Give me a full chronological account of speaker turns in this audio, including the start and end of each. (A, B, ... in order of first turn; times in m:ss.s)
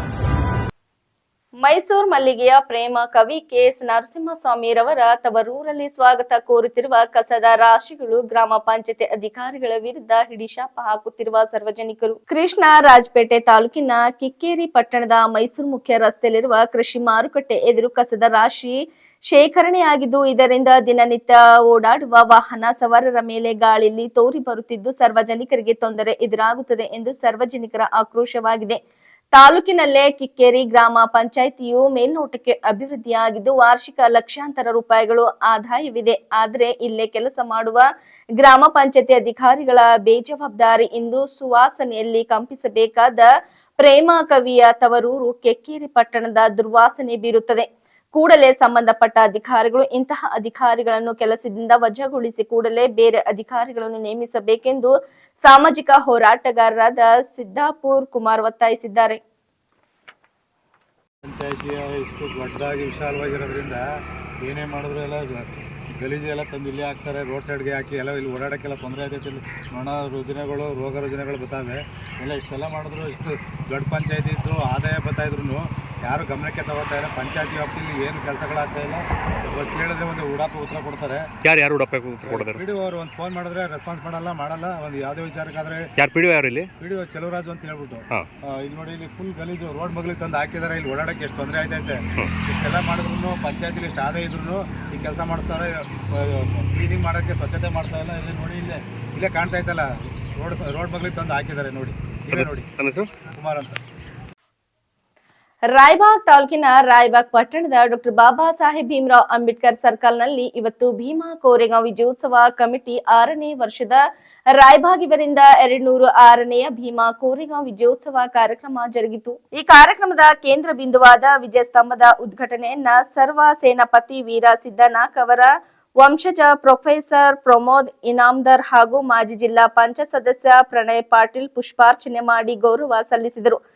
0:01.6-0:28.8 A
0:29.3-0:37.9 A
0:38.4-0:43.3 A
0:43.8-0:59.2 A
1:01.2-1:03.8 B
1:04.4-1:21.4 B
1:21.4-1:22.7 C
1:22.2-1:26.0 B
1:26.0-1:26.7 C
1:26.8-1:43.7 B
1:42.3-1:43.1 C
1:45.7-1:54.0 A
1:54.5-2:13.6 A